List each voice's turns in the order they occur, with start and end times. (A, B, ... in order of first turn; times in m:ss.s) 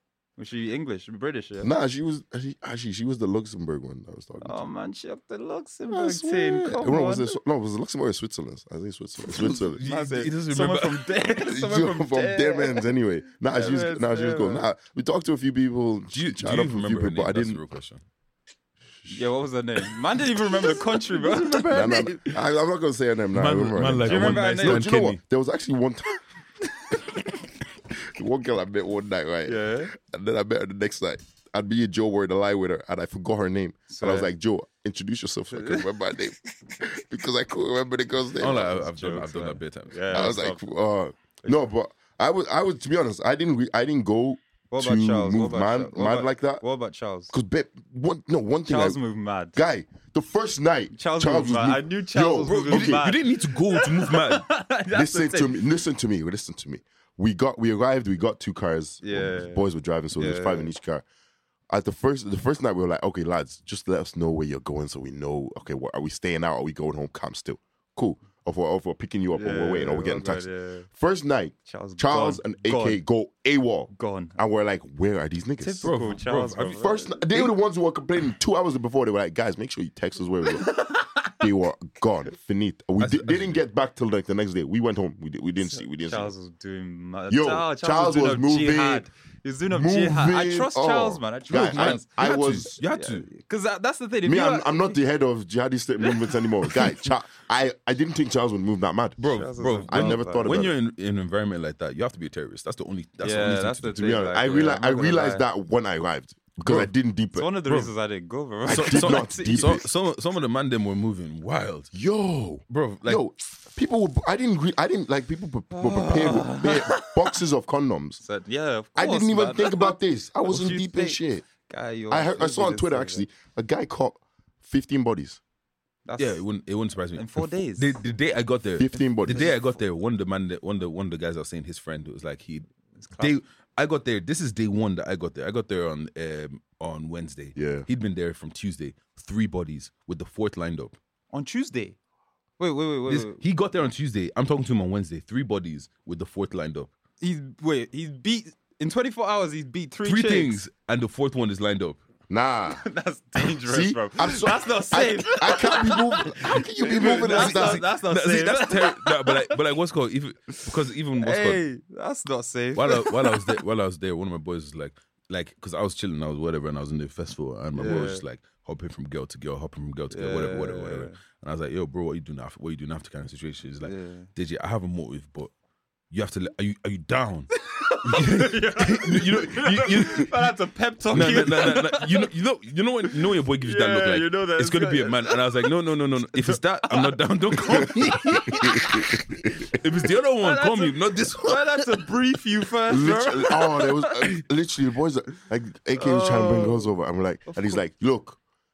0:00.4-0:01.7 A
0:01.6-0:04.6 B
0:04.4-0:07.3 A
0:05.9-0:09.8 B
0:09.3-0:11.1 C
0:09.8-0:12.9 A
0:11.5-0:17.6 B
0:13.5-0:14.7 A
0:16.1-0:18.0 C
0:19.1-0:22.3 A
0:21.4-0:21.6 C
0:21.7-0:26.2 B
0:23.3-0:25.2 C
0:24.0-0:24.9 A
0:27.9-0:38.9 B
0:29.5-0:29.9 A
0:33.9-0:34.3 A
0:35.5-0:35.9 A
0:38.4-0:40.0 C
0:38.8-0:40.7 A
0:40.1-0:46.6 B
0:44.7-0:47.3 A
0:47.3-0:49.0 B
0:48.7-0:49.6 A
0:49.5-0:53.0 B
0:50.9-0:55.6 A
0:52.5-0:54.5 C
0:54.9-1:01.0 B
0:59.0-1:00.7 A
1:01.7-1:16.0 B
1:09.3-1:10.9 A
1:11.7-1:13.0 A
1:13.9-1:14.4 A
1:15.6-1:17.5 A
1:15.8-1:16.8 C
1:16.6-1:20.7 B
1:20.6-1:21.4 A
1:21.3-1:26.3 B
1:23.0-1:23.6 C
1:25.6-1:32.1 A
1:27.3-1:29.1 B
1:29.7-1:32.8 B
1:31.5-1:33.3 C
1:32.8-1:35.0 A
1:34.2-1:39.2 B
1:39.2-1:44.0 C
1:39.3-1:40.6 A
1:39.8-1:40.8 B
1:43.2-1:45.4 A
1:44.0-1:47.5 B
1:46.6-1:46.9 C
1:47.4-1:49.7 A
1:47.7-1:47.9 C
1:48.7-1:49.8 B
1:48.7-1:51.9 C
1:51.9-1:58.2 B
1:52.7-1:53.2 C
1:55.7-1:57.4 A
1:58.2-2:03.2 A
1:59.0-2:01.5 B
2:02.1-2:05.4 B
2:06.1-2:06.4 A
2:06.2-2:21.0 C
2:07.2-2:08.0 A
2:08.8-2:09.5 B
2:09.0-2:09.6 A
2:13.0-2:13.4 A
2:17.6-2:17.9 B
2:21.3-2:22.0 A
2:22.6-2:23.4 A
2:23.1-2:26.9 C
2:27.2-2:30.6 A
2:30.0-2:32.0 C
2:32.3-2:32.8 B
2:32.8-2:39.6 A
2:33.4-2:37.8 B
2:37.0-2:41.6 C
2:41.2-2:43.6 A
2:42.8-2:55.5 C
2:47.7-2:48.2 A
2:50.1-2:51.2 A
2:53.8-2:54.3 A
2:56.1-2:57.5 C
2:57.7-3:02.3 A
2:58.1-3:00.5 C
3:01.1-3:09.1 C
3:03.6-3:05.7 A
3:06.3-3:09.0 A
3:08.7-3:09.5 B
3:09.7-3:11.9 C
3:10.4-3:14.4 A
3:12.9-3:18.4 B
3:16.0-3:16.9 A
3:17.5-3:17.8 A